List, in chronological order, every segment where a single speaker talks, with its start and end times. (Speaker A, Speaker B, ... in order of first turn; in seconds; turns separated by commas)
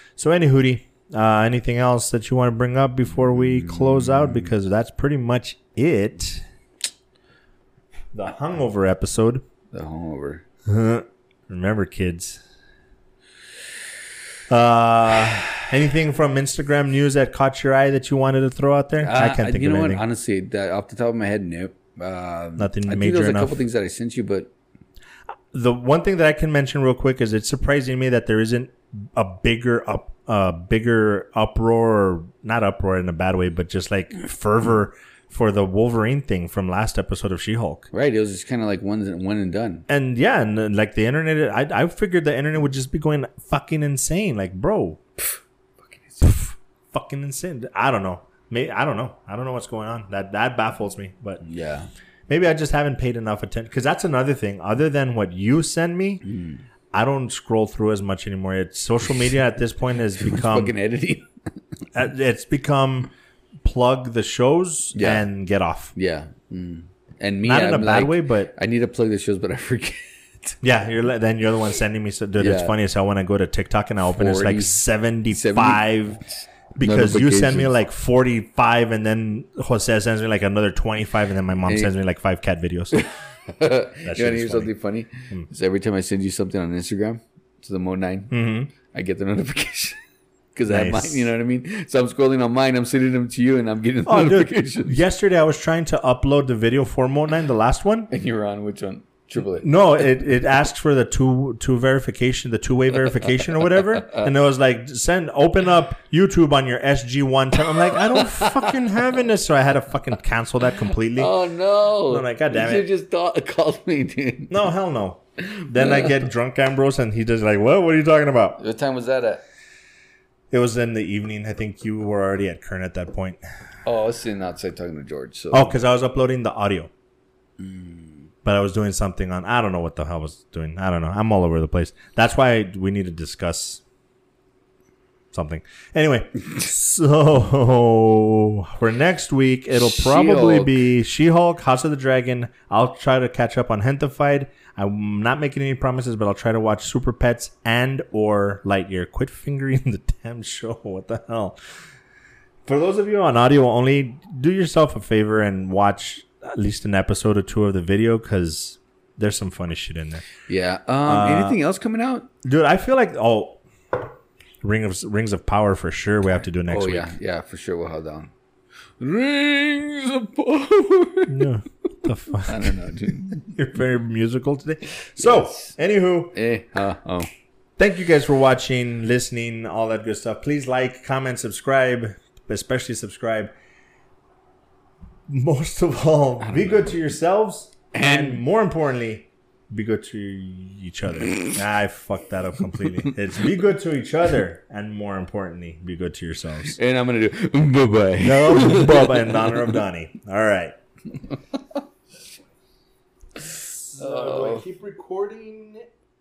Speaker A: 0.2-6.4, Speaker B: 3.5-4.5, Speaker A: 8.1-9.4, Speaker B: 9.7-10.4, Speaker A: 10.7-12.4, Speaker A: 14.5-20.0, Speaker B: 19.0-24.5, Speaker A: 22.6-23.6, Speaker A: 25.5-37.9, Speaker B: 37.9-39.8, Speaker A: 39.9-45.0, Speaker B: 45.9-46.2, Speaker A: 46.2-51.4, Speaker B: 51.4-51.9, Speaker A: 52.3-56.2, Speaker B: 56.2-56.6, Speaker A: 56.9-60.7, Speaker B: 60.2-61.3, Speaker A: 61.9-63.1, Speaker A: 63.6-65.9, Speaker B: 64.9-65.3, Speaker B: 65.9-70.5, Speaker A: 67.4-68.5, Speaker A: 70.6-76.2, Speaker B: 72.4-72.7, Speaker B: 74.1-74.8, Speaker B: 75.3-75.9, Speaker A: 76.8-83.0, Speaker B: 76.8-77.7, Speaker B: 82.9-90.0, Speaker A: 84.0-84.7, Speaker A: 88.3-88.7, Speaker B: 90.5-95.0, Speaker A: 90.7-91.3, Speaker A: 94.0-98.1, Speaker B: 98.1-99.8, Speaker A: 99.6-111.3, Speaker B: 103.5-104.3, Speaker B: 107.7-109.0, Speaker B: 110.8-114.6, Speaker A: 112.0-112.9, Speaker A: 114.5-118.6, Speaker B: 115.4-116.2, Speaker B: 118.6-119.4, Speaker A: 120.5-123.4, Speaker B: 123.8-125.8, Speaker A: 125.5-126.9, Speaker B: 127.6-128.3, Speaker A: 128.4-133.8, Speaker A: 135.3-151.6, Speaker B: 139.7-140.7, Speaker A: 152.7-160.2, Speaker B: 160.5-162.3, Speaker A: 161.0-161.6, Speaker A: 162.4-163.6, Speaker A: 164.6-167.1, Speaker B: 166.7-168.3, Speaker B: 169.0-171.4, Speaker A: 171.3-176.3, Speaker B: 172.3-173.5, Speaker B: 175.0-175.7, Speaker B: 176.3-177.3, Speaker A: 177.8-183.5, Speaker A: 185.3-196.8, Speaker B: 186.4-186.9, Speaker B: 187.9-188.4, Speaker B: 191.2-191.6, Speaker B: 192.8-193.1, Speaker B: 196.6-199.7, Speaker A: 198.2-200.7, Speaker A: 203.9-205.8, Speaker B: 203.9-204.7